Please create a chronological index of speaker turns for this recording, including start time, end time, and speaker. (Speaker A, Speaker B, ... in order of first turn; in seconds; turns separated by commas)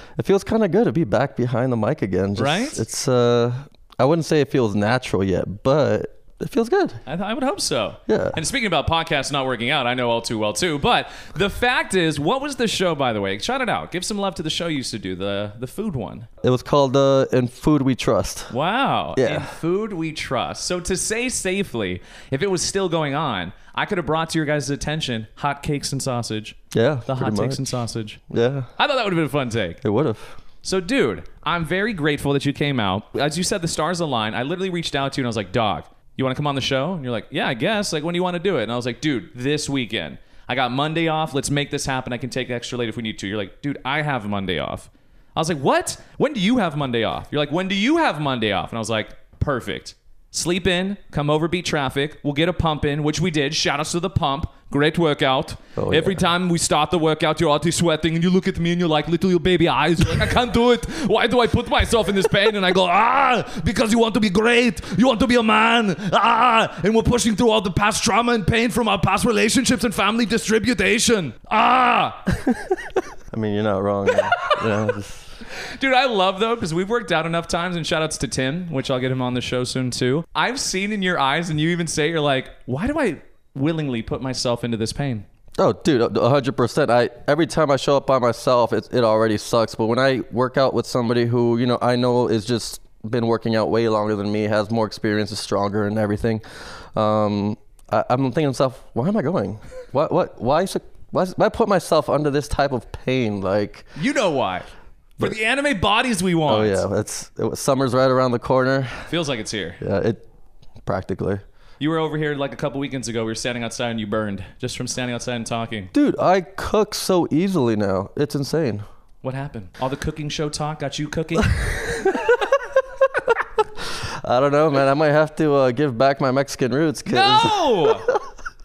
Speaker A: 0.2-7.0, Speaker B: 2.4-2.8, Speaker B: 7.1-16.3, Speaker A: 8.1-8.4, Speaker A: 16.4-18.5, Speaker B: 18.5-28.2, Speaker A: 19.2-19.5, Speaker A: 26.7-28.7, Speaker B: 28.8-29.8, Speaker A: 29.8-30.3, Speaker B: 30.6-72.3, Speaker A: 55.8-56.2, Speaker A: 73.3-75.3, Speaker B: 74.2-74.9, Speaker B: 75.6-85.2, Speaker A: 85.6-103.8, Speaker B: 104.0-104.7, Speaker B: 105.2-106.8, Speaker A: 106.5-109.1, Speaker B: 109.1-109.8, Speaker A: 109.8-110.2, Speaker A: 110.8-111.4, Speaker B: 111.8-115.9, Speaker A: 115.9-118.8, Speaker B: 119.2-122.1, Speaker A: 121.5-122.6, Speaker A: 123.8-128.2, Speaker B: 127.0-128.1